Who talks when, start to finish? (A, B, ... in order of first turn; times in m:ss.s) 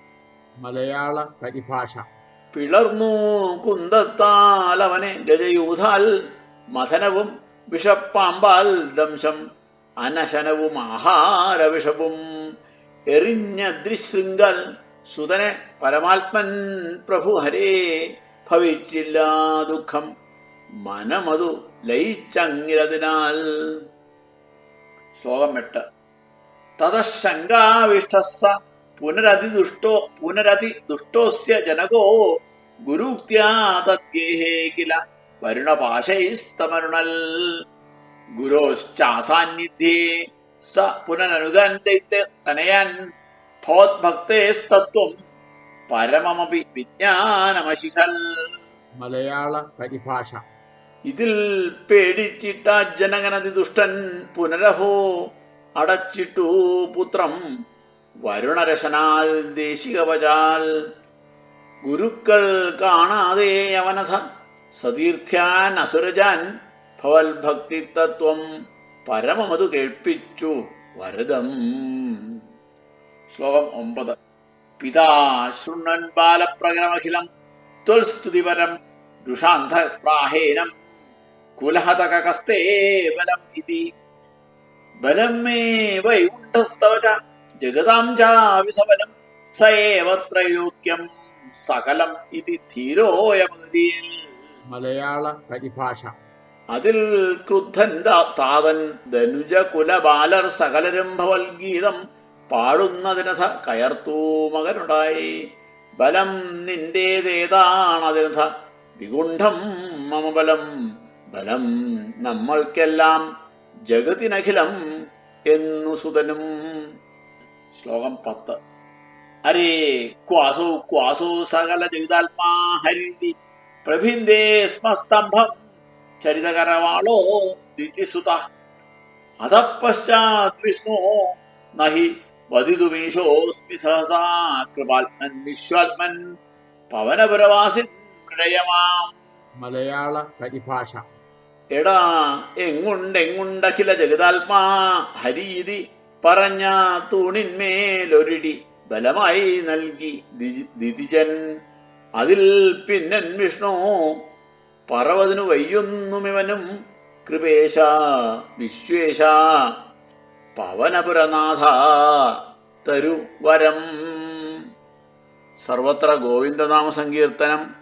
0:00.6-0:02.0 A
0:02.5-0:06.1 B
0:06.7-0:09.4 B
0:10.0-0:12.2 B
0:13.1-0:17.8 B
0:18.4-0:20.1 B
0:20.8-0:23.8 B
0:25.1-0:25.8 B
0:26.8-0:32.3 B
0:32.9-0:37.6 B
0:38.4-0:43.0 B
0:43.6-0:45.2 B
0:45.9-0:48.5 B
0:49.0-0:50.4 A
0:51.1-0:55.0 B
0:55.8-0:57.4 B
0:58.2-1:00.7 B
1:01.8-1:04.2 B
1:04.8-1:06.4 B
1:07.0-1:08.4 B
1:09.1-1:12.4 B
1:13.3-1:14.2 B
1:14.8-1:17.3 B
1:17.9-1:18.7 B
1:19.3-1:20.7 B
1:21.6-1:23.9 B
1:25.0-1:31.0 B
1:31.6-1:34.2 B
1:34.7-1:36.1 A
1:36.7-1:42.0 B
1:42.5-1:45.3 B
1:46.0-1:50.7 B
1:51.3-1:53.2 B
1:53.9-1:54.8 B
1:55.5-1:56.8 B
1:57.7-1:58.6 B
1:59.5-2:05.6 B
2:06.2-2:08.4 B
2:09.4-2:16.2 B
2:16.9-2:19.1 B
2:19.6-2:21.0 A
2:21.8-2:31.4 B
2:32.2-2:34.2 B
2:34.9-2:36.6 B
2:37.2-2:39.5 B
2:40.6-2:44.6 B
2:45.6-2:47.6 B